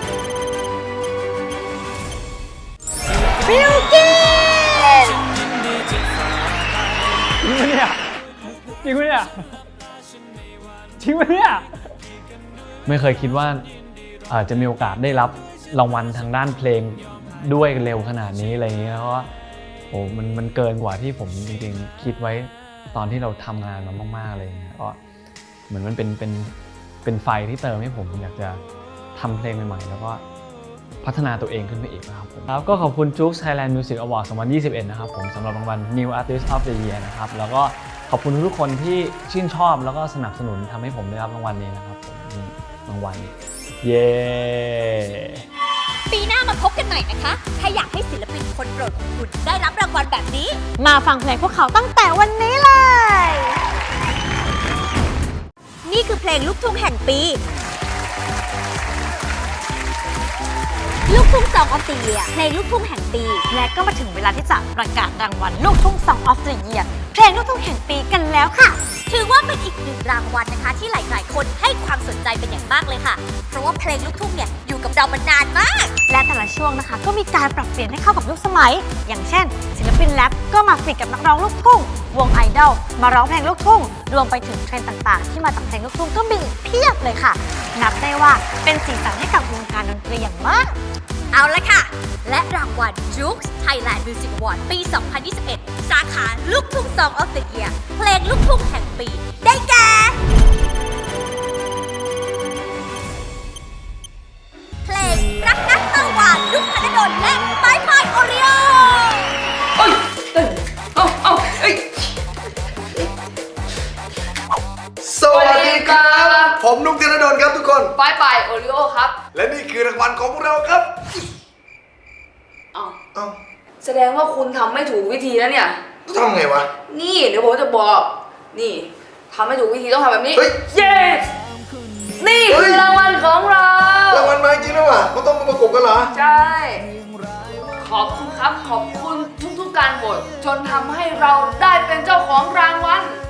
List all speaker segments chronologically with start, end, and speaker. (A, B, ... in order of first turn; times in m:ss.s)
0:03.4-0:05.3 A
0:07.4-0:08.0 B
0:08.7-0:09.6 B
0:11.0-0:11.7 B
0:12.8-0:13.7 B
0:14.3-0:19.3 B
0:19.9-0:25.0 B
0:25.7-0:28.6 B
0:29.1-0:30.2 B
0:31.0-0:45.4 B
0:46.1-0:50.6 C
0:50.8-0:53.6 A
0:55.8-0:57.4 C
1:01.1-1:03.4 C
1:03.5-1:08.8 A
1:09.1-1:15.9 C
1:16.1-1:30.8 A
1:31.3-1:40.2 C
1:44.8-1:49.3 C
1:49.8-1:51.9 D
1:55.0-1:57.9 E
1:55.3-1:56.5 D
1:58.0-1:59.2 D
1:59.3-2:01.0 E
2:03.8-2:05.8 D
2:06.1-2:06.7 E
2:06.9-2:11.3 D
2:10.3-2:10.6 E
2:12.2-2:14.1 D
2:12.5-2:13.0 E
2:14.1-2:16.1 E
2:16.2-2:16.8 D
2:17.8-2:23.1 D